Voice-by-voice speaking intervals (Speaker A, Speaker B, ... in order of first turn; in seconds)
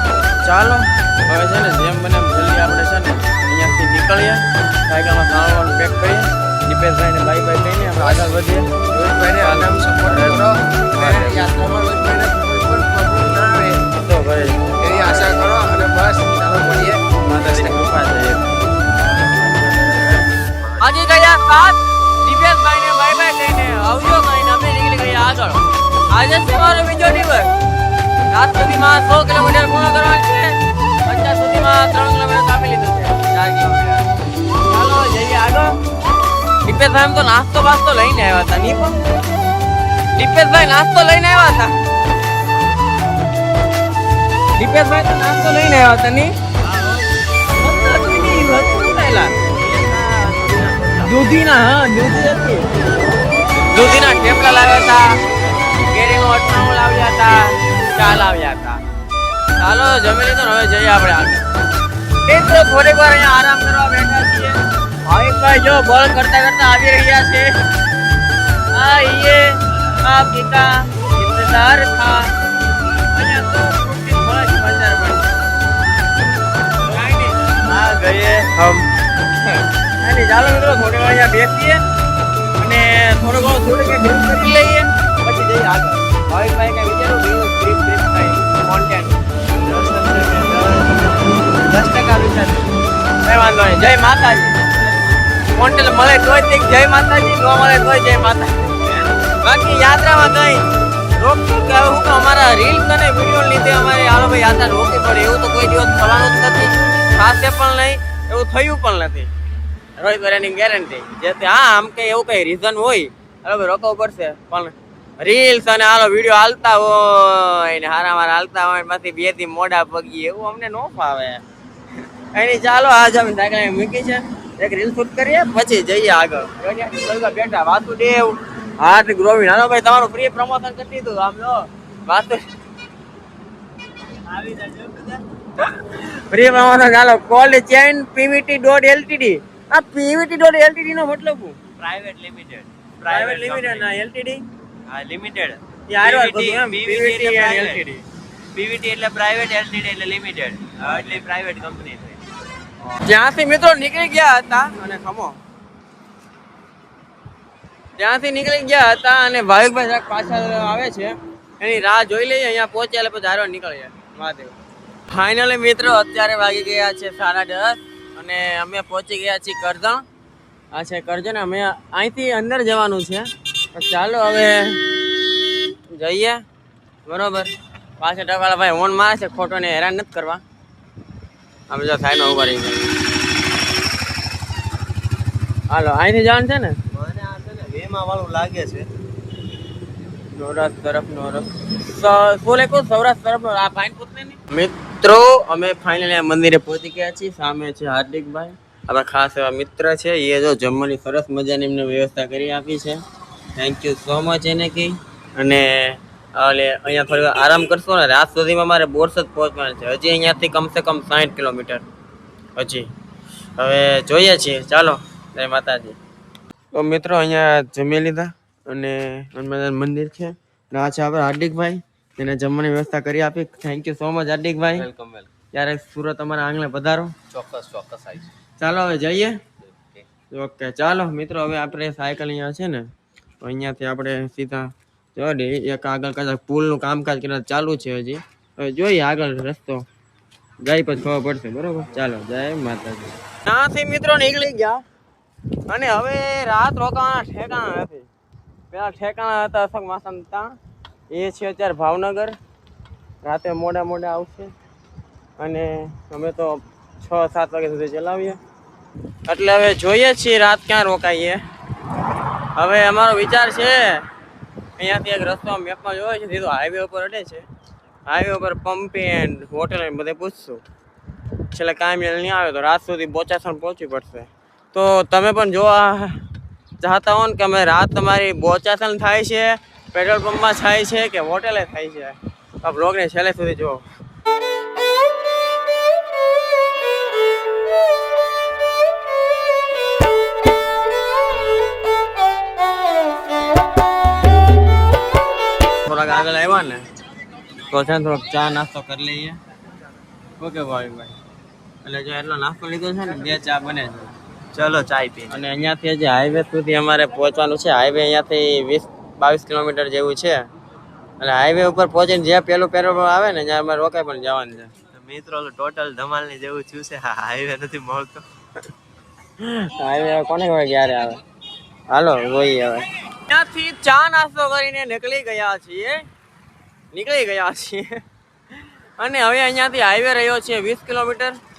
Speaker A: 0.4-8.7, 9.4-11.5, 13.9-15.5, 17.2-18.6, 19.1-20.2, 20.8-27.5, 28.3-34.0, 34.7-35.7, 36.6-39.0, 40.1-41.8, 44.6-46.3, 47.5-49.3, 51.0-52.7, 53.7-55.1, 55.8-58.8, 59.6-61.5, 62.2-67.5, 68.7-72.3, 73.1-75.3, 76.8-81.8, 82.6-89.2, 93.2-94.6, 95.5-100.6, 101.2-109.3, 110.0-121.4, 122.3-132.4, 135.6-141.6, 143.0-144.4, 145.9-148.0, 150.8-151.2, 153.0-155.4, 158.0-164.5, 165.1-170.0, 170.7-175.0, 175.9-176.4, 177.0-180.4, 181.7-183.0, 185.7-186.8, 190.3-203.0, 203.5-211.8, 212.6-212.9, 213.6-216.0, 216.7-224.9, 225.5-227.1, 228.6-229.4, 230.3-239.8, 240.6-244.8, 245.7-248.1, 248.7-250.6, 251.1-252.3, 253.2-254.5, 255.4-258.4, 259.3-261.4, 262.5-264.1, 264.8-267.5, 268.1-270.6, 271.5-276.2, 276.8-283.8, 295.7-296.9, 297.7-299.4, 300.4-301.1, 301.8-304.1, 305.3-310.4, 311.2-314.7, 319.4-321.2, 321.9-326.0, 326.9-328.0, 328.5-331.4
Speaker B: 8.9-13.8, 14.8-17.8
Speaker C: 46.7-47.1, 49.5-51.2, 77.7-78.3, 89.5-92.7, 134.2-135.2, 141.8-143.9, 144.9-147.8, 148.5-152.2, 186.9-188.9, 224.7-225.3, 227.3-228.3, 229.7-230.0, 304.5-305.4, 314.9-318.2